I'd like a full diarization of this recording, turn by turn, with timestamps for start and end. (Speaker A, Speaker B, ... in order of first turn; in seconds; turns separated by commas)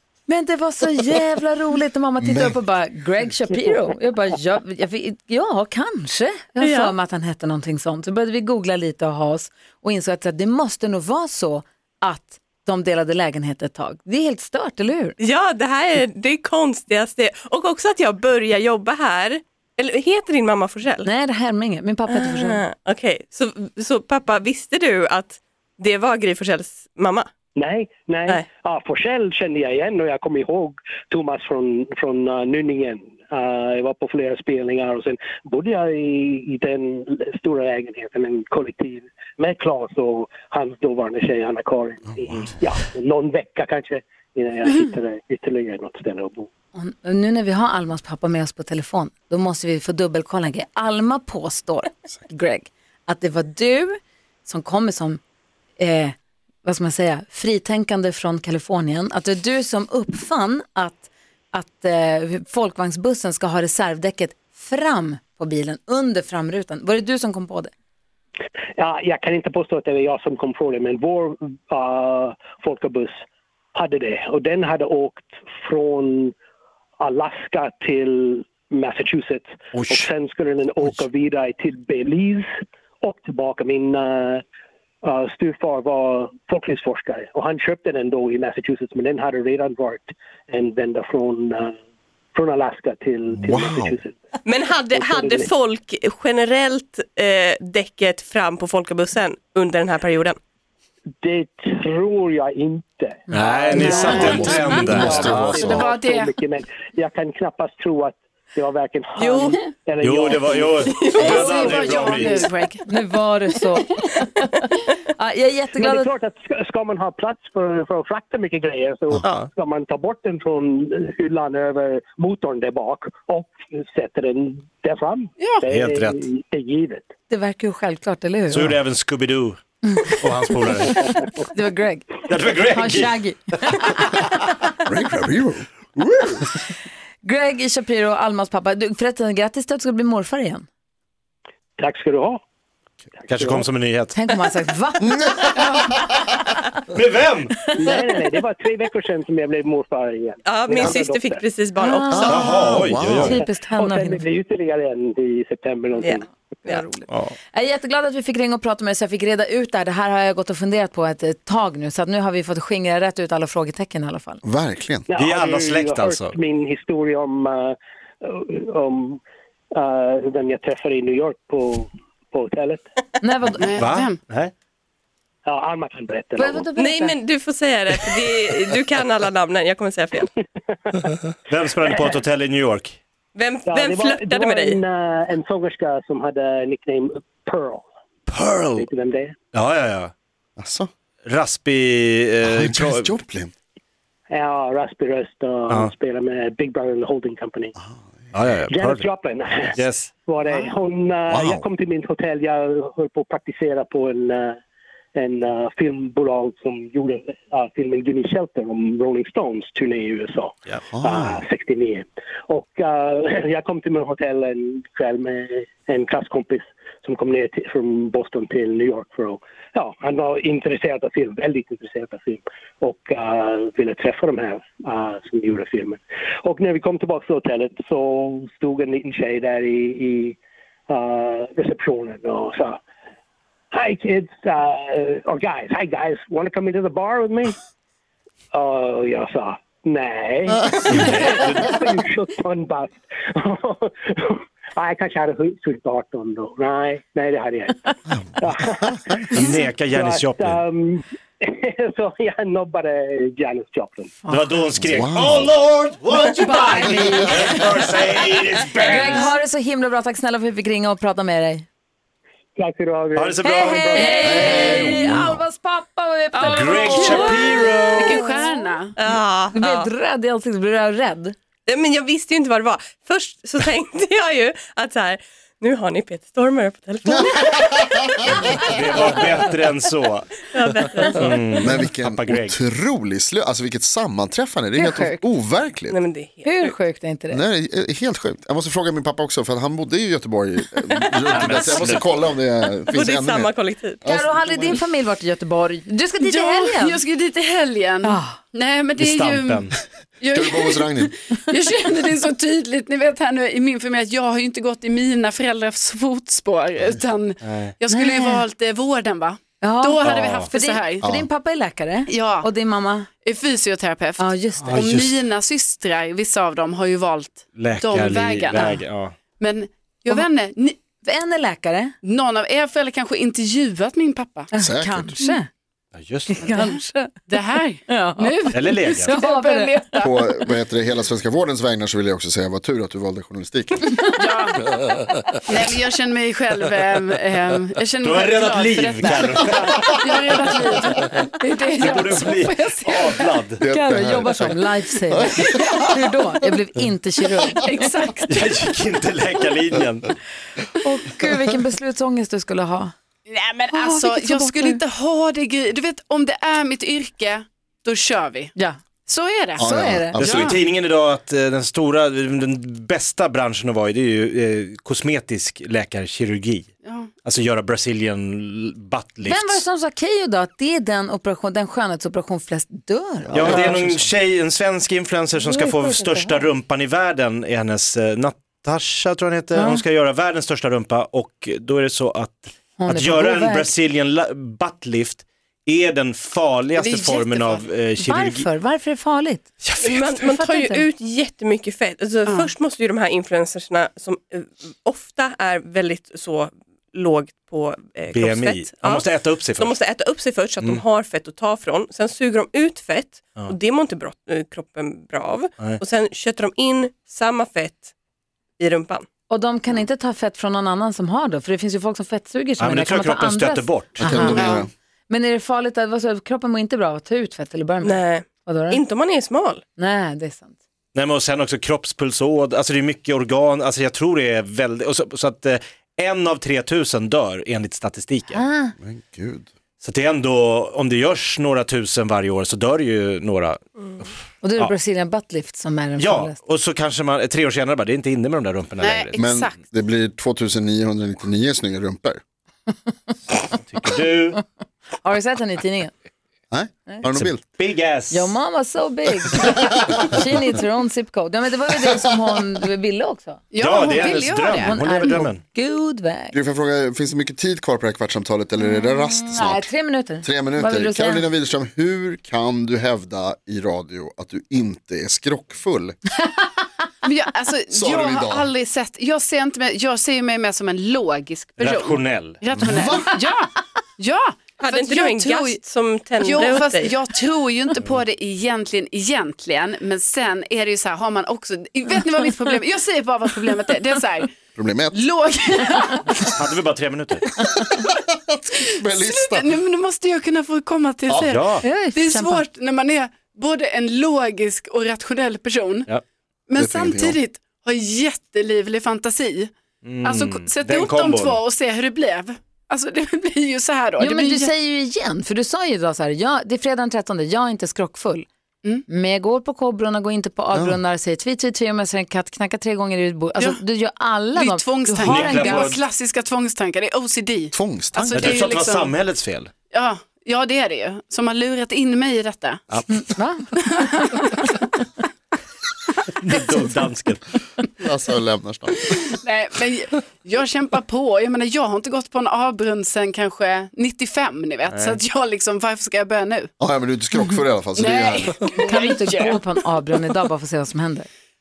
Speaker A: 0.3-15.2, Speaker B: 2.2-2.6, Speaker C: 6.6-6.9, Speaker C: 15.2-21.1, Speaker A: 21.0-22.6, Speaker C: 22.1-27.3, Speaker D: 27.6-46.5, Speaker A: 46.8-55.2, Speaker A: 55.8-67.7, Speaker D: 68.8-73.1, Speaker D: 73.7-76.3, Speaker D: 77.0-82.5, Speaker E: 79.7-80.1, Speaker D: 83.0-84.4, Speaker D: 85.0-91.7, Speaker D: 92.3-94.1, Speaker B: 93.3-94.0, Speaker C: 94.4-100.4, Speaker D: 94.9-95.5, Speaker D: 101.2-112.1, Speaker A: 103.3-104.5, Speaker E: 103.3-105.5, Speaker F: 103.8-106.3, Speaker B: 104.4-105.8, Speaker C: 109.2-109.6, Speaker E: 110.0-112.5, Speaker F: 111.0-112.8, Speaker A: 112.9-116.1, Speaker D: 115.8-127.0, Speaker E: 125.7-126.2, Speaker A: 127.3-128.8, Speaker E: 128.5-131.1, Speaker A: 130.8-134.4, Speaker E: 132.3-133.1, Speaker B: 134.8-136.4, Speaker A: 137.2-140.7, Speaker D: 141.8-142.4, Speaker D: 143.3-143.7, Speaker E: 143.3-144.1, Speaker A: 144.1-145.8, Speaker B: 145.1-145.8, Speaker E: 146.9-147.8, Speaker D: 147.7-151.4, Speaker C: 150.4-152.5, Speaker A: 151.8-154.2, Speaker B: 152.1-153.3, Speaker E: 152.3-153.4, Speaker D: 153.3-156.2, Speaker C: 156.0-156.9, Speaker A: 156.6-164.4, Speaker B: 164.4-165.1, Speaker D: 165.1-169.2, Speaker E: 165.2-166.4, Speaker D: 169.8-172.8, Speaker A: 173.2-173.8, Speaker F: 173.6-174.2, Speaker E: 173.8-174.5, Speaker D: 175.4-176.7, Speaker A: 176.4-177.1, Speaker C: 176.8-180.3, Speaker D: 180.7-181.1, Speaker E: 181.5-183.0, Speaker D: 181.8-182.2, Speaker C: 183.3-184.8, Speaker D: 183.7-187.8, Speaker E: 188.3-188.9, Speaker D: 188.8-189.3, Speaker E: 189.5-190.1, Speaker B: 190.6-190.9, Speaker E: 191.2-193.1, Speaker B: 192.4-193.5, Speaker D: 194.3-197.8, Speaker E: 198.3-199.1, Speaker D: 198.7-204.6, Speaker E: 199.7-200.1, Speaker B: 201.3-201.7, Speaker D: 205.1-230.4, Speaker B: 210.9-211.4, Speaker D: 230.9-232.8, Speaker D: 233.7-237.6, Speaker D: 238.5-254.1, Speaker E: 240.9-241.8, Speaker E: 249.3-250.6, Speaker A: 254.2-254.7, Speaker E: 254.3-259.4, Speaker B: 254.8-255.5, Speaker A: 256.4-257.9, Speaker A: 258.8-261.7, Speaker D: 262.6-264.9, Speaker E: 263.1-265.0, Speaker A: 263.4-268.5, Speaker C: 264.0-264.6, Speaker B: 264.2-265.4, Speaker E: 266.4-268.2, Speaker F: 266.8-268.9, Speaker C: 269.0-269.9, Speaker A: 269.5-271.4, Speaker C: 271.7-279.5, Speaker B: 277.1-278.4, Speaker E: 278.6-280.3, Speaker C: 280.5-281.6, Speaker E: 281.1-282.6, Speaker B: 281.6-286.0, Speaker A: 284.8-285.2, Speaker C: 285.9-286.7, Speaker A: 286.4-287.4, Speaker B: 287.3-293.5, Speaker E: 291.3-292.1, Speaker C: 292.9-294.0, Speaker B: 294.0-294.6, Speaker A: 294.1-297.0, Speaker F: 296.2-311.0, Speaker A: 298.0-298.4, Speaker E: 299.0-299.8, Speaker B: 300.3-301.1, Speaker E: 307.4-307.7, Speaker A: 307.9-308.4, Speaker A: 309.6-313.1, Speaker E: 310.0-310.5, Speaker B: 311.0-311.3, Speaker F: 312.1-312.5, Speaker F: 313.2-318.8, Speaker A: 314.2-314.8, Speaker E: 314.6-315.2, Speaker E: 317.6-319.2, Speaker A: 318.5-318.8, Speaker F: 319.4-320.8, Speaker A: 321.0-321.9, Speaker F: 322.0-324.5, Speaker A: 324.5-325.5, Speaker B: 324.6-325.1, Speaker E: 325.9-326.5, Speaker A: 326.3-327.2, Speaker F: 326.4-326.7, Speaker F: 327.3-330.3, Speaker A: 327.9-329.9, Speaker E: 328.5-329.1, Speaker B: 330.0-334.0, Speaker F: 334.1-334.7, Speaker F: 335.4-343.3, Speaker E: 338.0-340.0, Speaker E: 341.8-343.6, Speaker B: 343.6-345.9, Speaker A: 343.6-347.9, Speaker F: 347.6-348.5, Speaker E: 348.3-350.1, Speaker A: 350.8-352.9, Speaker F: 353.3-358.5, Speaker A: 353.7-354.8, Speaker F: 359.1-360.6, Speaker B: 359.6-360.3, Speaker A: 359.6-360.5, Speaker E: 360.1-366.7, Speaker F: 366.8-367.1, Speaker E: 367.2-369.6, Speaker A: 369.2-373.8, Speaker E: 373.3-388.4, Speaker B: 373.3-374.1, Speaker A: 375.4-376.5, Speaker A: 379.5-379.8, Speaker A: 382.8-383.7, Speaker F: 386.7-387.6, Speaker A: 388.0-389.5, Speaker E: 389.6-390.3, Speaker C: 389.8-407.9, Speaker A: 390.3-390.8, Speaker F: 392.3-392.5, Speaker E: 398.1-399.8, Speaker C: 408.6-409.1, Speaker A: 409.3-418.8, Speaker E: 412.6-414.5, Speaker B: 414.0-414.7, Speaker F: 414.3-414.7, Speaker C: 417.8-419.6, Speaker A: 419.8-420.6, Speaker E: 420.9-428.4, Speaker A: 428.3-428.7, Speaker B: 428.8-429.5, Speaker E: 429.8-434.7, Speaker A: 434.4-436.4, Speaker E: 436.0-439.3, Speaker F: 438.8-439.6, Speaker B: 439.2-442.2, Speaker E: 443.6-444.4, Speaker A: 445.0-445.9, Speaker B: 446.5-447.4, Speaker E: 447.2-448.3, Speaker A: 448.1-453.4, Speaker F: 453.5-454.8, Speaker E: 453.6-455.4, Speaker A: 454.6-456.3, Speaker B: 456.3-466.0, Speaker A: 458.8-461.3, Speaker F: 467.0-475.6, Speaker B: 467.7-468.5, Speaker E: 471.6-472.4, Speaker B: 472.6-473.1, Speaker C: 474.6-476.9, Speaker F: 476.2-484.3, Speaker B: 484.6-484.9, Speaker F: 484.9-486.3, Speaker E: 486.3-487.3, Speaker B: 487.7-489.5, Speaker F: 488.9-495.9, Speaker E: 491.2-491.7, Speaker A: 491.6-492.4, Speaker F: 496.5-499.5, Speaker B: 496.6-497.2, Speaker E: 499.8-501.4, Speaker F: 500.0-504.5, Speaker A: 504.0-508.3, Speaker A: 508.9-515.7, Speaker B: 510.5-510.8, Speaker F: 514.3-519.0, Speaker E: 515.0-515.8, Speaker B: 517.5-518.4, Speaker E: 518.1-519.5, Speaker F: 519.7-522.6, Speaker E: 522.7-523.1, Speaker A: 522.9-524.0, Speaker F: 523.6-524.6, Speaker E: 526.2-527.2, Speaker B: 527.8-529.0, Speaker F: 529.0-536.5, Speaker E: 534.7-535.0, Speaker B: 536.6-538.3, Speaker F: 537.8-539.4, Speaker A: 538.6-541.1